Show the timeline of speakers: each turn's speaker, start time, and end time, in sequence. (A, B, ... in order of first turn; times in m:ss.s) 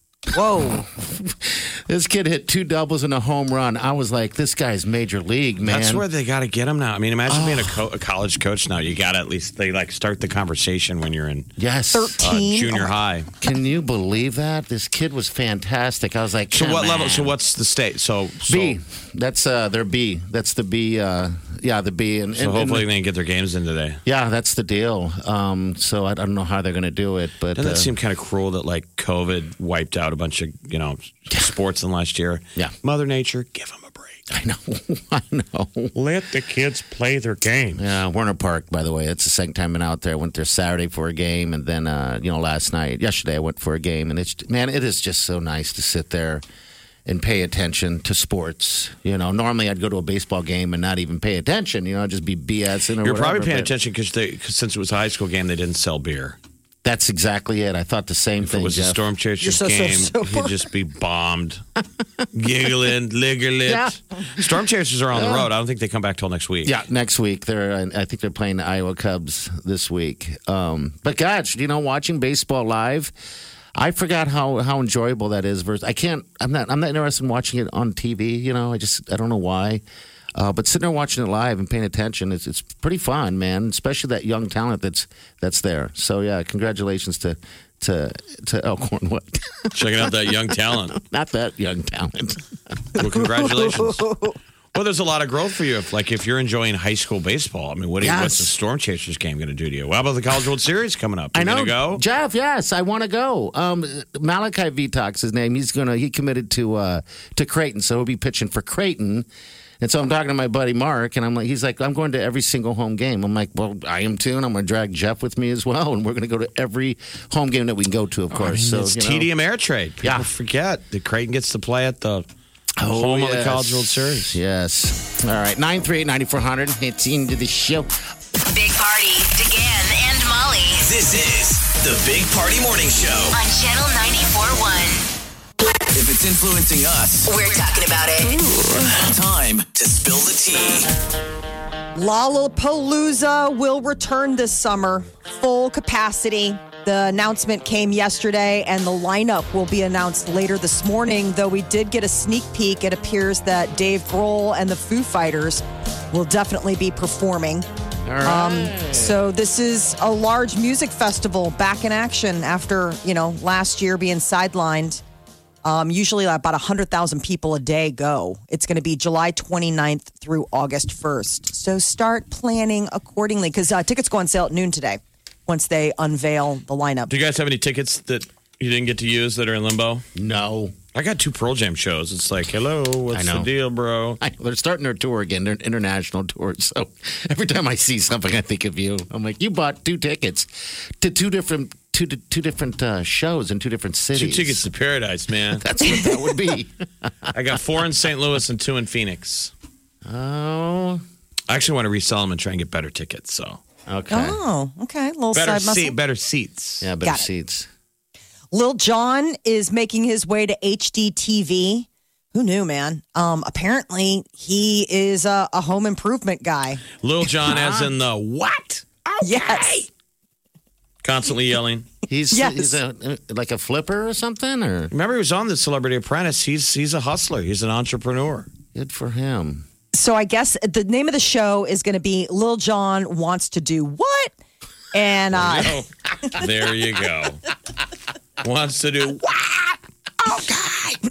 0:00.3-0:00.8 A
0:00.3-0:06.0 B
0:05.6-0:11.5 C
0:07.3-0:07.8 B
0:11.6-0:12.1 B
0:11.9-0:12.9 A
0:12.2-0:13.3 C
0:13.4-0:17.3 B
0:16.5-0:18.8 C
0:18.4-0:22.8 B
0:22.4-0:24.0 C
0:24.0-0:27.9 B
0:27.6-0:34.2 C
0:34.3-0:35.9 B
0:35.9-0:37.9 C
0:37.7-0:46.4 B
0:47.0-0:53.7 B
0:53.0-0:56.4 C
0:56.8-0:59.0 B
0:58.4-1:01.6 C
0:59.4-1:00.5 A
1:02.3-1:06.7 C
1:03.6-1:04.0 B
1:05.1-1:05.5 B
1:06.6-1:13.1 B
1:13.7-1:19.8 B
1:20.3-1:32.4 B
1:29.7-1:31.0 C
1:33.0-1:34.1 C
1:33.0-1:34.4 A
1:34.7-1:42.0 C
1:38.0-1:38.5 B
1:41.3-1:49.3 B
1:49.8-1:59.3 B
1:58.3-2:02.2 C
2:00.0-2:00.3 B
2:02.8-2:07.9 B
2:02.8-2:04.4 C
2:08.4-2:10.9 D
2:10.8-2:13.4 E
2:13.3-2:15.1 D
2:15.9-2:17.3 E
2:17.3-2:18.4 D
2:18.9-2:20.9 E
2:22.0-2:37.7 A
2:38.0-2:39.2 B
2:38.2-2:45.0 A
2:45.6-2:57.1 A
2:57.1-3:00.0 C
3:00.1-3:00.8 B
3:00.9-3:04.2 C
3:03.1-3:03.5 B
3:04.2-3:10.5 B
3:11.0-3:14.7 B
3:14.1-3:15.6 C
3:15.5-3:17.3 B
3:15.8-3:16.1 A
3:17.3-3:19.5 C
3:20.0-3:21.0 B
3:21.5-3:23.6 C
3:23.9-3:24.4 B
3:24.1-3:26.0 A
3:25.3-3:26.8 C
3:26.8-3:27.7 B
3:28.5-3:36.8 A
3:37.0-3:39.1 C
3:37.4-3:37.9 B
3:39.2-3:39.8 A
3:41.0-3:41.9 C
3:42.1-3:44.9 B
3:42.3-3:42.8 A
3:44.9-3:48.5 C
3:48.7-3:49.6 B
3:49.9-3:54.3 A
3:54.9-3:55.8 A
3:55.3-3:57.4 C
3:58.4-4:01.0 C